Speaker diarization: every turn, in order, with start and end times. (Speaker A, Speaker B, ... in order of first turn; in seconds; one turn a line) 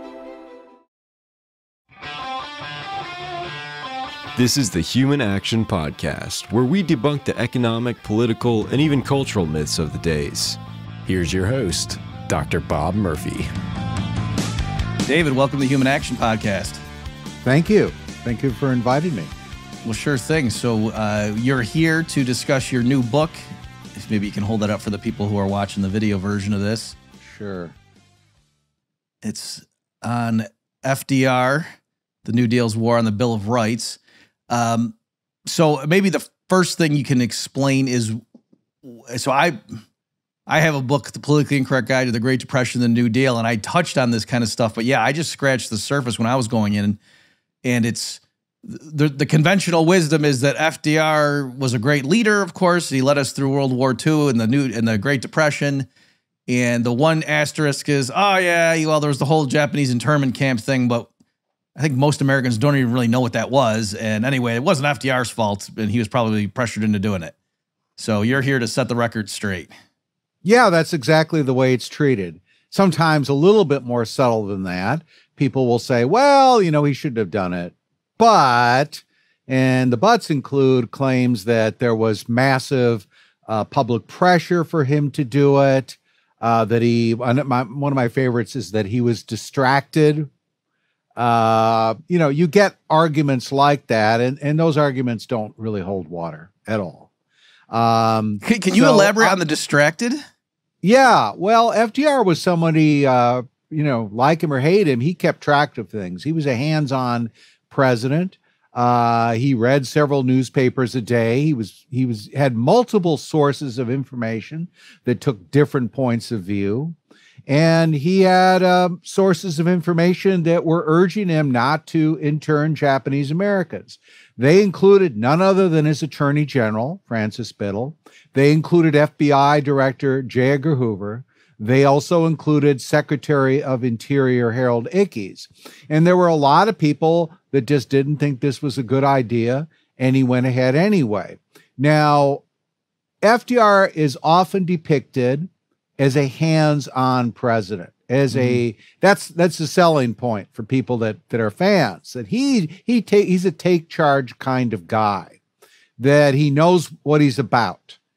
Speaker A: 4.4-13.5
Speaker B: 15.0-16.8
Speaker C: 17.4-19.3
Speaker B: 19.8-23.4
Speaker B: 23.9-27.0
Speaker C: 27.2-27.8
Speaker B: 29.2-31.7
Speaker B: 32.2-34.0
Speaker B: 34.5-34.9
Speaker B: 35.5-38.2
Speaker B: 38.8-39.6
Speaker B: 40.5-47.0
Speaker B: 47.6-55.9
Speaker B: 56.5-61.1
Speaker B: 61.8-67.3
Speaker B: 68.0-69.7
Speaker C: 70.4-90.3
Speaker C: 91.2-97.1
Speaker C: 97.7-99.4
Speaker B: 98.4-100.2
Speaker C: 100.8-117.0
Speaker C: 117.5-142.4
Speaker C: 143.2-155.3
Speaker B: 148.3-148.6
Speaker C: 156.0-158.0